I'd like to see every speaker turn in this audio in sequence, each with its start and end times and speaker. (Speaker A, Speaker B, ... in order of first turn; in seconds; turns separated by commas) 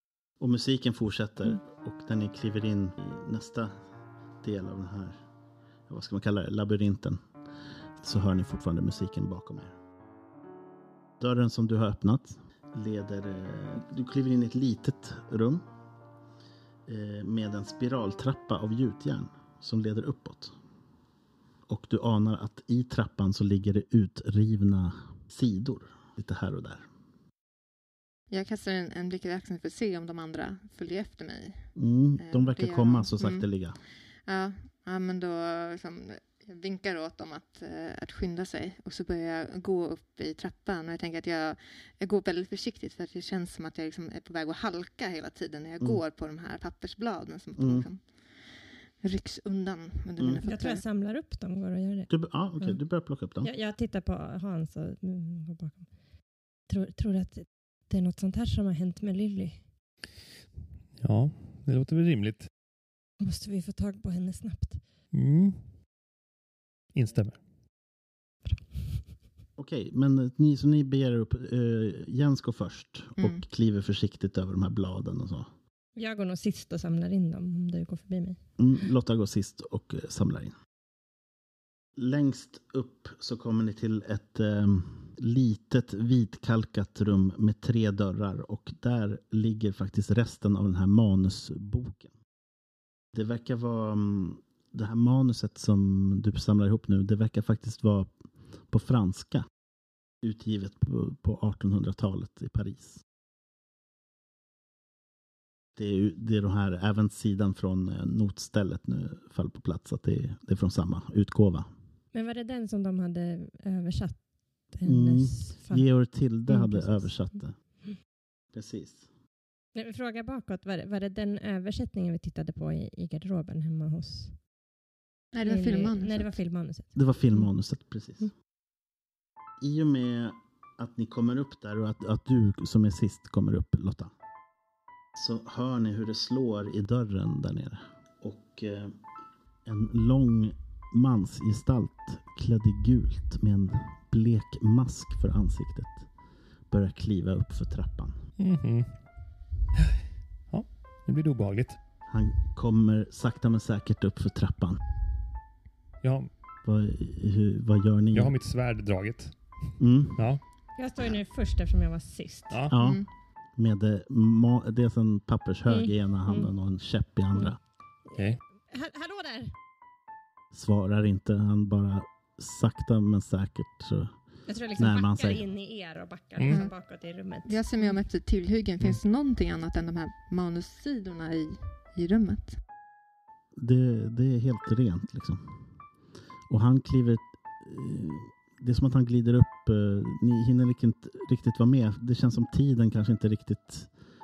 Speaker A: 0.4-3.7, Speaker A: 4.4-5.2, Speaker A: 5.9-7.2, Speaker A: 8.0-9.7, Speaker A: 11.2-15.6, Speaker A: 16.9-20.5, Speaker A: 21.7-26.9, Speaker B: 28.3-31.7, Speaker A: 31.8-33.8, Speaker B: 32.2-33.4, Speaker B: 34.3-48.0, Speaker A: 47.6-47.9, Speaker B: 49.0-50.8, Speaker C: 50.4-52.8, Speaker A: 52.1-53.5, Speaker C: 53.4-55.9, Speaker C: 56.7-59.6, Speaker D: 61.0-62.5, Speaker C: 63.2-64.8, Speaker D: 65.1-65.6, Speaker D: 66.9-67.4, Speaker C: 68.5-69.0, Speaker A: 69.6-75.5, Speaker C: 76.0-78.4, Speaker A: 78.6-80.5, Speaker A: 82.0-92.1, Speaker A: 93.1-98.1, Speaker A: 98.7-99.5, Speaker A: 100.2-103.0, Speaker A: 105.8-111.7, Speaker C: 112.1-115.9, Speaker A: 114.8-117.5, Speaker C: 116.5-118.0, Speaker A: 118.5-119.0, Speaker C: 119.7-124.4, Speaker B: 125.3-126.3, Speaker C: 125.4-127.5, Speaker A: 126.9-128.3, Speaker A: 129.6-134.1, Speaker A: 135.2-138.9, Speaker A: 139.7-146.1, Speaker A: 146.7-148.2, Speaker D: 148.4-148.9, Speaker D: 150.5-151.8, Speaker A: 152.1-154.8, Speaker D: 156.0-156.3, Speaker A: 156.6-158.3, Speaker D: 158.1-159.3, Speaker A: 159.8-160.2, Speaker D: 160.2-160.4, Speaker C: 160.8-162.7, Speaker A: 162.7-163.0, Speaker B: 162.7-163.1, Speaker A: 163.6-167.6, Speaker C: 165.7-166.5, Speaker C: 168.1-169.5, Speaker A: 170.5-174.1, Speaker C: 174.5-178.0, Speaker A: 174.8-175.4, Speaker D: 176.4-176.6, Speaker B: 176.5-176.7, Speaker B: 177.4-182.6, Speaker A: 183.6-185.5, Speaker A: 186.5-193.9